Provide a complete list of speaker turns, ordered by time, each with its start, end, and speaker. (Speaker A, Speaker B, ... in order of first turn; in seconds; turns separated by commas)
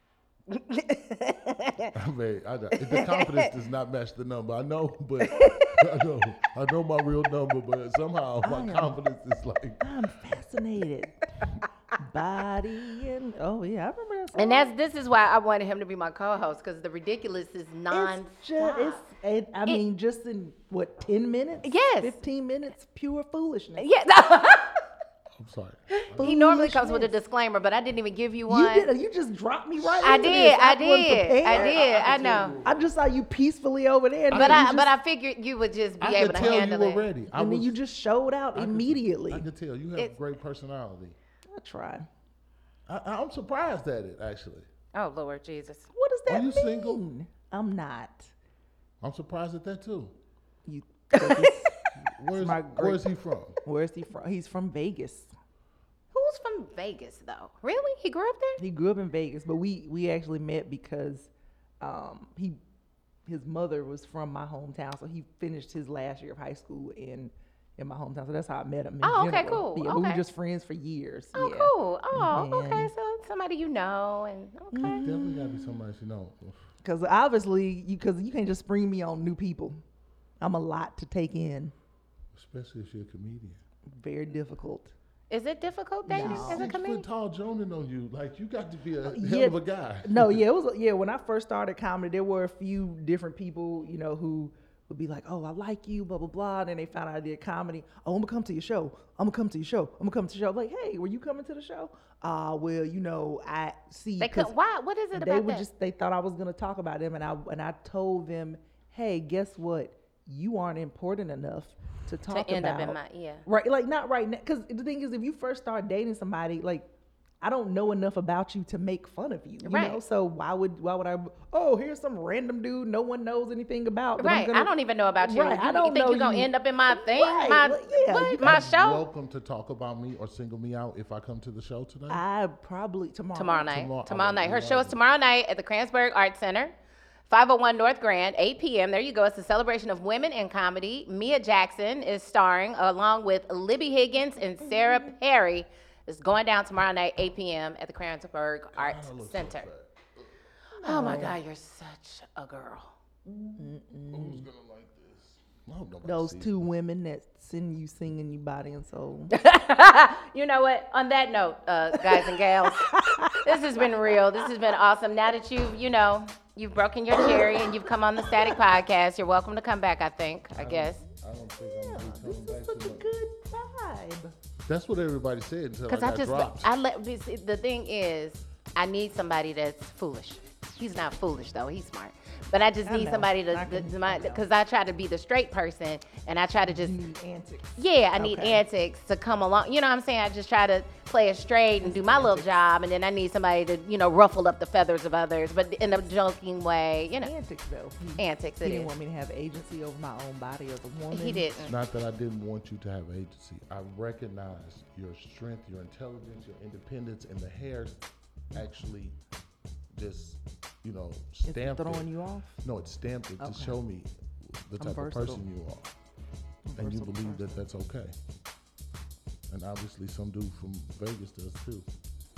Speaker A: 0.5-1.9, Speaker B: 1.9-9.9, Speaker A: 2.9-3.5, Speaker A: 5.2-5.8, Speaker C: 8.4-9.0, Speaker C: 9.8-11.4, Speaker C: 11.9-14.7, Speaker A: 14.3-19.0, Speaker C: 17.9-23.9, Speaker A: 21.6-22.2, Speaker A: 23.8-24.8, Speaker B: 25.4-26.4, Speaker A: 26.0-28.9, Speaker C: 26.1-27.1, Speaker C: 28.5-31.8, Speaker B: 29.8-30.4, Speaker A: 30.0-32.5, Speaker B: 31.4-32.9, Speaker C: 32.6-34.9, Speaker B: 34.3-34.8, Speaker A: 34.3-37.0, Speaker B: 36.0-37.8, Speaker C: 37.3-39.5, Speaker B: 38.5-41.1, Speaker C: 41.5-42.1, Speaker B: 42.9-44.7, Speaker A: 44.9-45.9, Speaker C: 45.9-48.3, Speaker B: 46.3-47.0, Speaker B: 49.0-50.1, Speaker C: 50.6-51.7, Speaker A: 51.1-51.8, Speaker B: 51.9-53.6, Speaker C: 52.3-53.1, Speaker C: 53.6-55.3, Speaker A: 56.1-58.6, Speaker C: 58.6-62.6, Speaker C: 63.2-72.9, Speaker A: 69.0-70.2, Speaker A: 71.3-75.0, Speaker C: 74.7-75.8, Speaker B: 74.8-76.6, Speaker C: 76.8-79.8, Speaker C: 80.4-81.7, Speaker B: 82.3-83.6, Speaker C: 83.9-84.9, Speaker A: 85.3-87.0, Speaker C: 86.1-86.7, Speaker B: 86.1-90.4, Speaker C: 89.1-104.5, Speaker A: 104.2-105.7, Speaker C: 105.1-116.9, Speaker A: 112.3-113.5, Speaker C: 117.4-128.8, Speaker A: 119.6-120.0, Speaker A: 124.2-129.0, Speaker B: 128.4-132.2, Speaker C: 132.1-133.8, Speaker A: 133.3-136.7, Speaker B: 133.7-135.0, Speaker A: 137.3-149.7, Speaker B: 148.8-150.3, Speaker C: 150.8-151.4, Speaker A: 150.8-152.9, Speaker C: 153.6-154.5, Speaker B: 154.1-156.5, Speaker C: 156.0-159.3, Speaker A: 159.3-171.0, Speaker C: 161.9-164.5, Speaker C: 167.2-167.6, Speaker C: 168.3-168.6, Speaker B: 170.5-173.1, Speaker C: 171.6-174.3, Speaker B: 174.7-176.7, Speaker A: 175.9-187.0, Speaker C: 182.8-184.4, Speaker C: 186.7-188.6, Speaker A: 187.8-197.3, Speaker C: 191.8-192.5, Speaker C: 197.2-201.5, Speaker A: 198.2-198.9, Speaker A: 201.1-201.7, Speaker B: 201.6-208.0, Speaker B: 208.5-209.1, Speaker B: 209.9-212.1, Speaker C: 211.4-212.5, Speaker B: 212.6-215.9, Speaker C: 213.4-213.8, Speaker C: 214.8-215.4, Speaker C: 216.6-217.7, Speaker B: 216.7-218.1, Speaker B: 219.5-221.9